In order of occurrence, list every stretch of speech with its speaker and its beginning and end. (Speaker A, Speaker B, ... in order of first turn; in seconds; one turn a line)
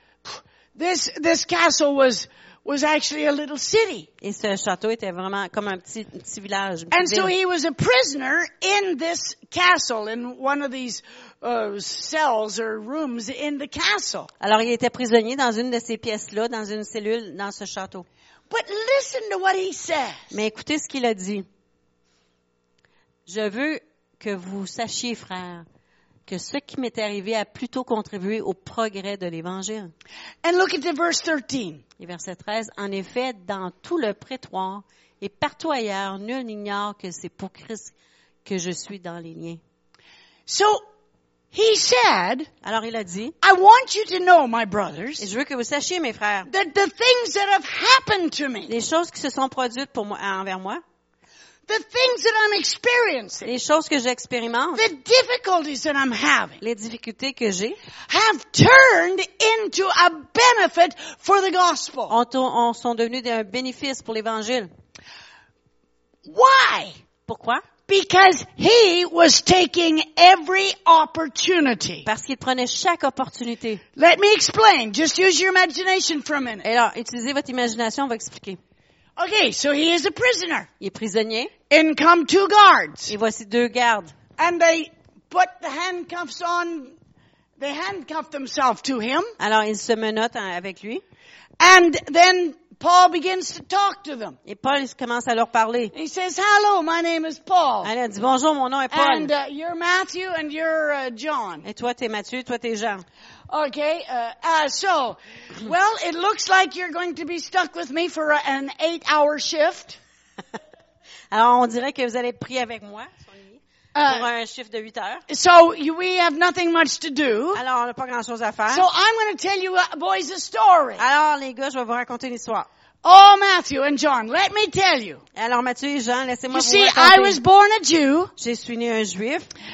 Speaker A: 0.2-4.1
Speaker B: 4.2-7.3
Speaker A: 6.9-14.3
Speaker B: 14.4-18.1
Speaker A: 18.5-20.3
Speaker B: 20.3-21.5
Speaker B: 23.2-25.6
Speaker B: 26.3-29.9
Speaker A: 30.4-31.8
Speaker B: 32.0-37.9
Speaker B: 38.4-39.6
Speaker A: 40.5-40.8
Speaker A: 41.5-42.5
Speaker B: 42.6-43.3
Speaker A: 43.4-45.3
Speaker B: 45.2-46.5
Speaker A: 46.5-48.7
Speaker B: 48.7-50.8
Speaker A: 51.7-53.5
Speaker B: 53.4-54.8
Speaker A: 54.7-56.6
Speaker B: 56.6-57.8
Speaker A: 58.1-62.1
Speaker B: 62.1-64.7
Speaker A: 66.2-67.0
Speaker B: 67.3-67.6
Speaker A: 67.9-72.1
Speaker B: 72.0-73.8
Speaker A: 74.0-76.7
Speaker B: 76.6-78.6
Speaker A: 79.2-80.7
Speaker B: 80.8-81.5
Speaker A: 81.7-83.1
Speaker B: 83.1-84.1
Speaker A: 84.4-86.9
Speaker A: 87.6-89.3
Speaker B: 89.4-91.0
Speaker A: 91.6-94.4
Speaker B: 94.4-95.9
Speaker A: 95.9-97.9
Speaker B: 97.8-99.3
Speaker A: 98.9-101.7
Speaker B: 101.6-103.0
Speaker A: 103.5-110.0
Speaker B: 111.3-115.2
Speaker A: 113.9-114.3
Speaker A: 115.3-117.6
Speaker B: 117.5-118.9
Speaker A: 118.7-121.0
Speaker B: 121.0-122.7
Speaker A: 123.0-125.2
Speaker B: 125.3-127.4
Speaker A: 126.5-128.3
Speaker B: 128.4-129.5